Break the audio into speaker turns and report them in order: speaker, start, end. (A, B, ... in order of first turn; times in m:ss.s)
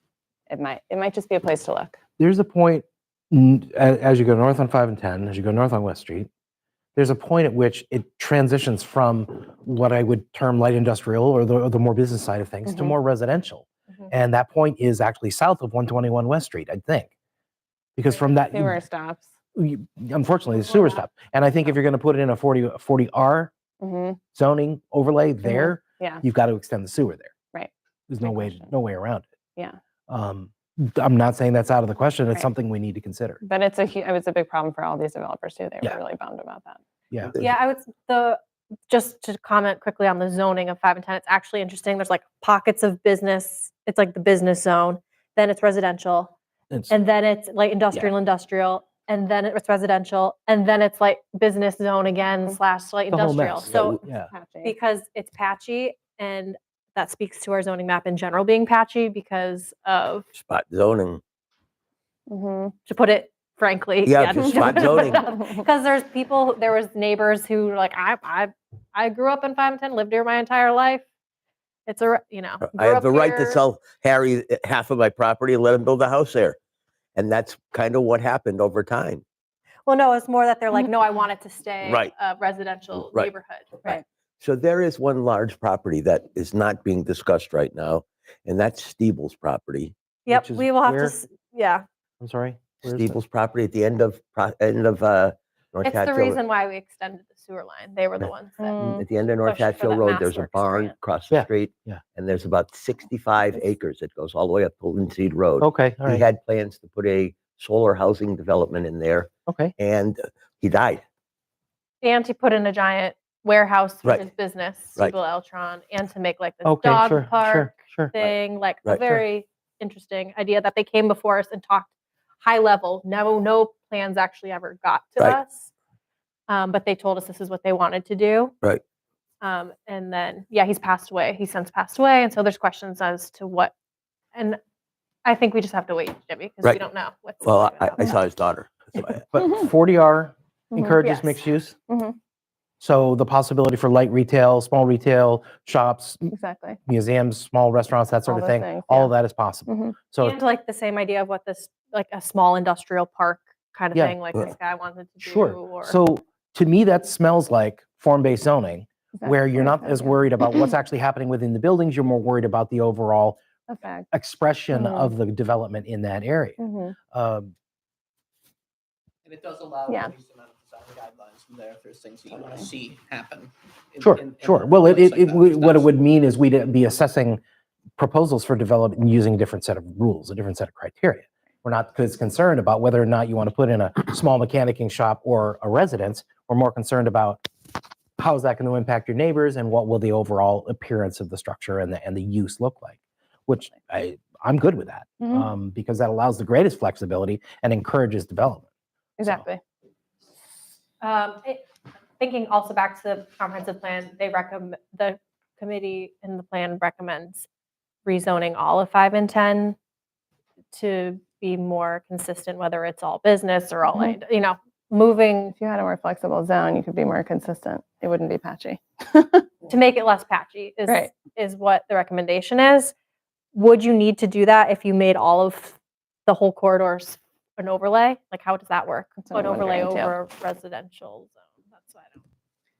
0:00.5-0:02.0 A
0:02.2-0:06.3 B
0:07.0-0:17.1 B
0:12.7-0:12.9 A
0:18.0-0:18.8 B
0:18.1-0:19.3 A
0:19.5-0:23.5 B
0:23.8-0:24.2 A
0:24.3-0:27.3 B
0:25.4-0:26.2 A
0:27.5-0:28.7 A
0:28.1-0:29.2 B
0:30.1-0:33.4 B
0:33.4-0:36.8 A
0:37.1-0:37.5 B
0:37.4-0:46.3 C
0:46.9-0:54.0 C
0:53.1-0:54.3 B
0:54.3-0:54.7 A
0:54.6-1:00.3 C
1:00.4-1:01.2 D
1:02.3-1:02.7 A
1:02.9-1:11.0 C
1:04.0-1:05.2 D
1:04.4-1:05.6 A
1:11.9-1:13.6 C
1:12.6-1:16.6 D
1:17.2-1:19.2 D
1:19.8-1:24.0 C
1:21.8-1:22.1 D
1:22.9-1:23.3 D
1:24.4-1:29.9 D
1:30.2-1:31.8 C
1:30.3-1:31.2 B
1:32.2-1:33.2 B
1:32.9-1:36.4 D
1:35.8-1:38.8 C
1:38.2-1:51.0 D
1:38.6-1:39.0 A
1:39.4-1:40.9 C
1:41.3-1:42.0 B
1:45.6-1:46.2 B
1:49.5-1:49.7 B
1:52.0-2:01.9 C
1:56.6-1:58.3 B
1:58.8-1:59.2 D
2:02.4-2:05.7 C
2:06.5-2:08.5 C
2:09.4-2:13.7 C
2:14.3-2:14.6 C
2:15.2-2:18.2 C
2:17.4-2:19.2 D
2:19.3-2:21.7 B
2:20.7-2:21.0 A
2:21.0-2:21.4 C
2:21.9-2:22.2 A
2:22.8-2:26.3 B
2:26.3-2:26.8 A
2:26.9-2:30.4 B
2:28.2-2:29.1 A
2:29.6-2:29.9 A
2:30.2-2:36.0 C
2:33.9-2:34.2 B
2:35.2-2:43.4 B
2:39.1-2:40.7 A
2:43.7-2:44.1 A
2:44.1-2:46.6 B
2:44.7-2:45.1 A
2:46.6-2:46.9 A
2:47.1-2:47.5 B
2:49.2-2:55.9 E
2:54.0-2:57.4 B
2:58.0-3:07.4 B
3:08.2-3:18.7 B
3:15.2-3:15.5 A
3:19.2-3:19.6 A
3:21.0-3:21.6 C
3:22.2-3:27.4 C
3:28.0-3:29.8 C
3:30.7-3:35.5 C
3:35.6-3:39.5 A
3:39.7-3:42.9 C
3:43.5-3:45.7 C
3:46.3-3:52.2 C
3:49.2-3:50.1 A